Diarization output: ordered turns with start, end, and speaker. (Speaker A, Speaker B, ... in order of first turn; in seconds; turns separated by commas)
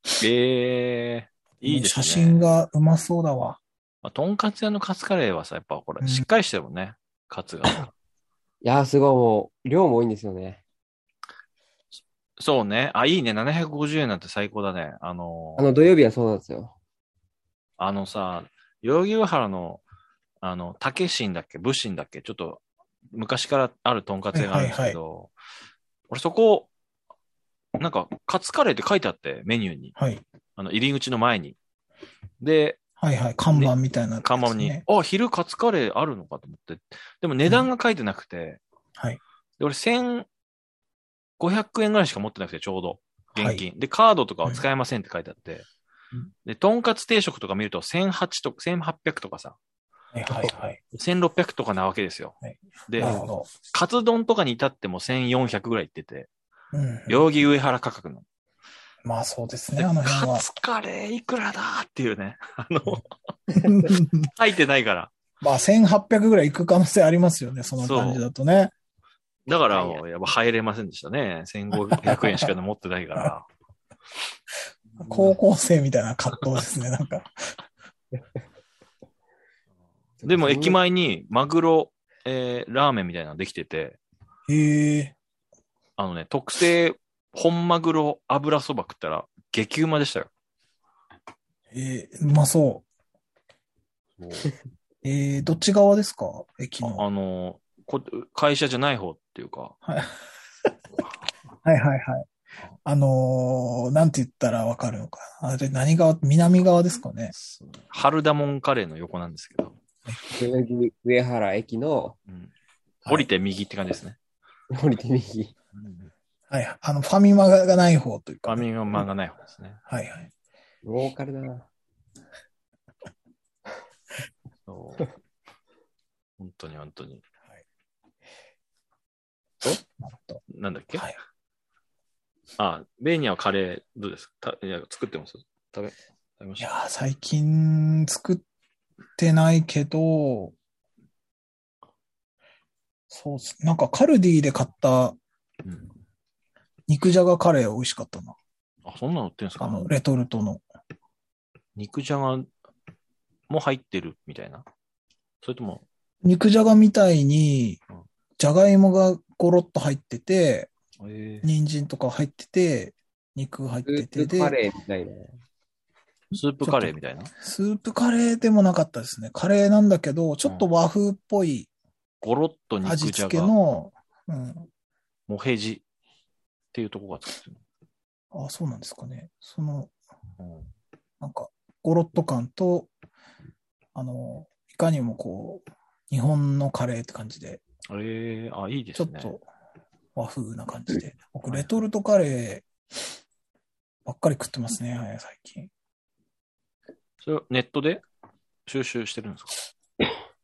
Speaker A: 0.2-2.5, Speaker B: 1.6-3.6, Speaker A: 4.0-7.9, Speaker C: 8.6-10.6, Speaker A: 12.4-15.6, Speaker C: 15.6-16.7, Speaker A: 17.8-19.8, Speaker A: 20.4-25.3, Speaker B: 24.3-25.0, Speaker A: 26.1-26.7, Speaker A: 27.8-29.9, Speaker B: 30.0-30.2, Speaker A: 30.6-31.6, Speaker A: 32.4-32.8, Speaker B: 33.0-34.8, Speaker A: 33.5-38.6, Speaker A: 39.6-40.3, Speaker A: 41.4-45.7, Speaker B: 43.4-43.6, Speaker A: 46.5-49.6, Speaker B: 50.1-50.8, Speaker A: 50.3-56.3, Speaker B: 52.5-53.5, Speaker C: 53.0-53.2, Speaker B: 56.7-57.2, Speaker A: 57.1-58.2, Speaker B: 59.0-60.4, Speaker A: 59.7-63.1, Speaker B: 63.5-64.3, Speaker A: 64.2-65.1, Speaker B: 65.4-68.7, Speaker A: 67.8-68.2, Speaker A: 69.5-73.5, Speaker B: 71.9-72.4, Speaker B: 75.0-77.6, Speaker C: 80.2-80.8, Speaker A: 80.2-84.0, Speaker B: 84.5-85.1, Speaker A: 86.0-90.3, Speaker B: 91.7-92.8, Speaker A: 94.2-94.5, Speaker B: 95.0-97.0, Speaker A: 96.8-99.7, Speaker B: 99.8-100.2, Speaker B: 101.6-102.3, Speaker B: 102.8-107.3, Speaker A: 107.3-109.7, Speaker C: 110.3-112.2, Speaker A: 113.0-114.2, Speaker C: 114.7-115.5, Speaker A: 115.7-116.1, Speaker B: 116.5-118.7, Speaker A: 118.5-119.8, Speaker B: 119.9-120.3, Speaker C: 120.8-121.7, Speaker A: 124.7-125.1, Speaker A: 126.4-127.2, Speaker B: 129.8-130.4, Speaker A: 130.5-131.1, Speaker A: 132.6-136.7, Speaker B: 136.6-138.4, Speaker B: 139.2-140.5, Speaker B: 143.1-145.2, Speaker B: 146.9-148.3, Speaker A: 148.8-149.9, Speaker B: 149.6-150.6, Speaker A: 151.8-152.5, Speaker A: 153.5-154.6, Speaker A: 155.4-155.8, Speaker B: 156.2-157.8, Speaker B: 158.4-160.7, Speaker A: 161.0-161.5, Speaker B: 161.4-164.6, Speaker C: 163.8-165.3, Speaker A: 166.3-167.3, Speaker B: 166.3-171.7, Speaker A: 172.2-173.5, Speaker B: 172.8-174.7, Speaker A: 175.3-175.8, Speaker A: 176.7-177.6, Speaker B: 178.3-179.9, Speaker A: 180.4-180.7, Speaker B: 181.2-182.9, Speaker B: 183.9-187.6, Speaker A: 187.9-189.3, Speaker B: 188.9-189.4, Speaker B: 190.1-192.7, Speaker B: 194.0-195.7, Speaker A: 197.2-198.0, Speaker A: 198.7-199.6